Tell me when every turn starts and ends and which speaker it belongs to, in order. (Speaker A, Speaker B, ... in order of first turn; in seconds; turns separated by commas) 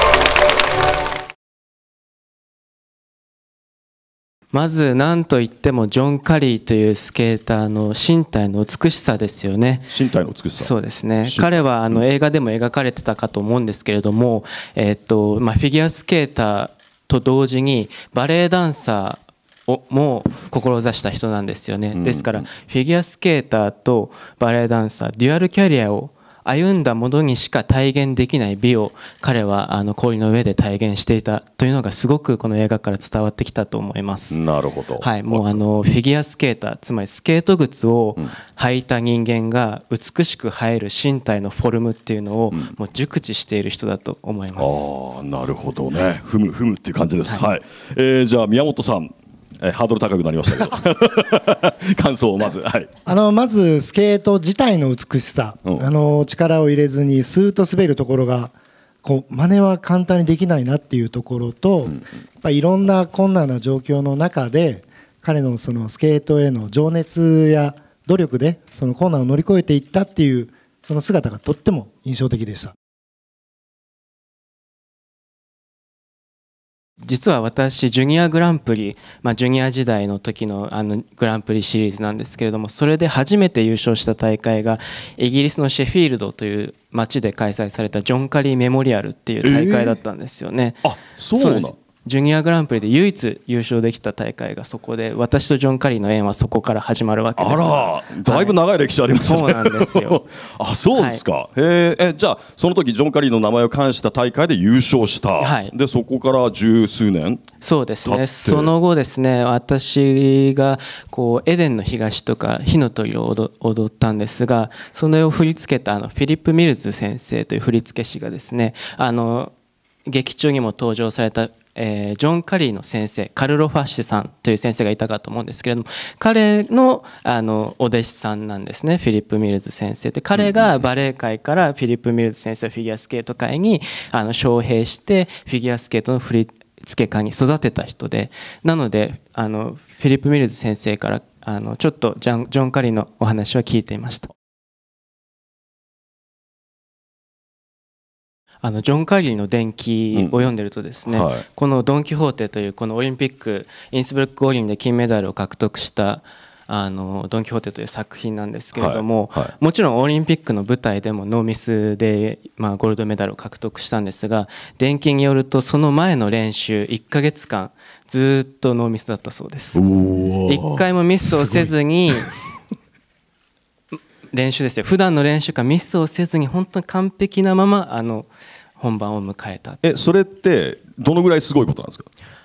Speaker A: 4.5-9.9, Speaker B: 9.9-10.7, Speaker A: 10.6-34.4, Speaker B: 11.2-12.0, Speaker B: 21.9-22.4, Speaker B: 34.3-35.6, Speaker A: 35.0-44.9, Speaker B: 44.6-52.9, Speaker C: 53.1-72.7, Speaker A: 77.0-98.5, Speaker B: 89.4-90.0, Speaker B: 90.8-91.8, Speaker B: 97.4-107.4, Speaker A: 99.2-100.2, Speaker A: 100.9-101.2, Speaker A: 105.4-105.7, Speaker A: 107.6-119.5, Speaker B: 108.0-108.7, Speaker A: 120.1-144.3, Speaker B: 130.3-130.8, Speaker A: 148.6-169.8, Speaker B: 151.1-151.4, Speaker B: 158.7-159.5, Speaker B: 169.8-172.3, Speaker A: 170.5-172.3, Speaker A: 174.3-179.8, Speaker B: 179.8-182.1